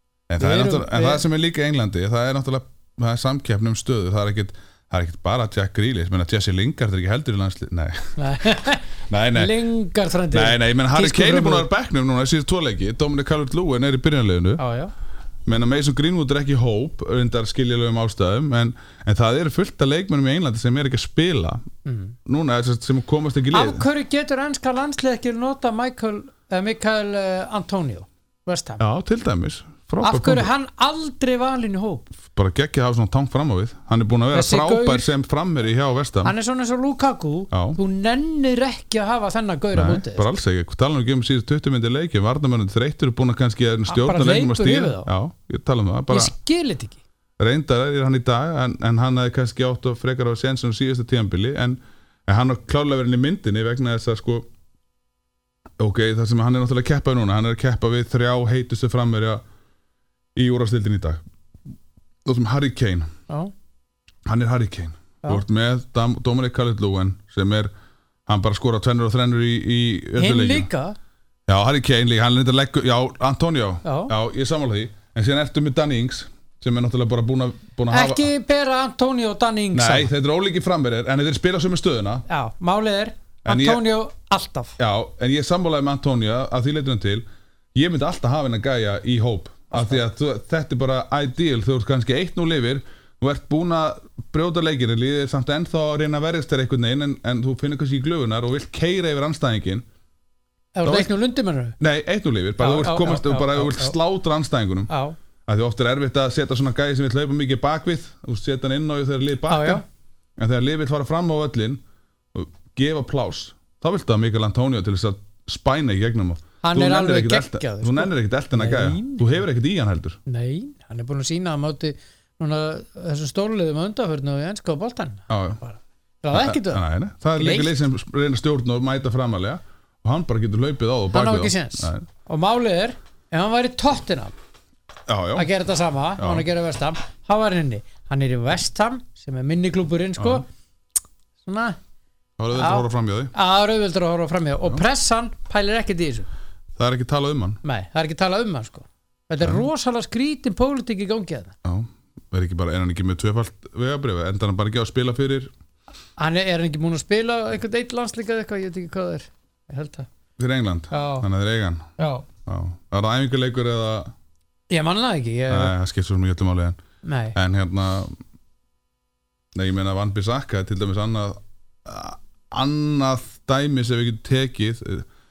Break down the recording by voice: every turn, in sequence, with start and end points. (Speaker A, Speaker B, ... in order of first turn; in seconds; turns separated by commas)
Speaker A: 0.3-8.2, Speaker B: 0.4-1.2, Speaker B: 8.2-11.7, Speaker A: 9.1-9.6, Speaker A: 10.3-14.6, Speaker B: 14.6-14.9, Speaker A: 15.5-21.6, Speaker B: 21.9-22.2, Speaker A: 22.3-23.9, Speaker B: 23.5-28.8, Speaker A: 28.8-30.5, Speaker B: 30.0-32.1, Speaker A: 32.3-36.4, Speaker B: 34.3-35.1, Speaker B: 36.2-40.3, Speaker A: 37.5-37.8, Speaker A: 39.7-46.3, Speaker B: 43.9-45.1, Speaker B: 46.1-47.0, Speaker A: 47.4-54.5, Speaker A: 55.8-59.4, Speaker A: 60.4-61.2, Speaker A: 62.2-63.1, Speaker A: 64.3-67.7, Speaker A: 68.3-70.7, Speaker B: 70.2-71.0, Speaker A: 71.5-78.3, Speaker B: 73.8-74.1, Speaker B: 77.9-80.1, Speaker A: 79.7-82.2, Speaker B: 82.3-84.8, Speaker A: 83.5-83.8, Speaker A: 84.8-99.8, Speaker B: 100.8-101.8, Speaker A: 100.8-101.1, Speaker A: 101.8-104.9, Speaker B: 102.6-104.0, Speaker B: 104.9-105.2, Speaker A: 105.5-109.8, Speaker B: 109.5-109.8, Speaker A: 110.4-111.8, Speaker A: 112.3-120.2, Speaker B: 116.6-119.3, Speaker B: 120.3-126.8, Speaker A: 125.3-125.6, Speaker A: 126.3-132.1, Speaker B: 127.4-127.8, Speaker B: 131.1-134.3, Speaker A: 135.1-135.5, Speaker B: 135.4-140.5, Speaker A: 136.2-136.5, Speaker A: 140.2-140.4, Speaker B: 141.4-141.8, Speaker A: 142.4-143.3, Speaker B: 142.5-146.3, Speaker A: 146.8-147.6, Speaker B: 147.6-151.6, Speaker A: 149.4-149.7, Speaker A: 151.7-155.5, Speaker B: 156.2-160.1, Speaker A: 160.4-161.9, Speaker B: 160.9-161.3, Speaker B: 162.0-162.3, Speaker A: 162.5-164.1, Speaker B: 164.7-165.7, Speaker A: 165.5-166.8, Speaker B: 167.0-167.4, Speaker A: 167.3-168.2, Speaker A: 169.6-175.1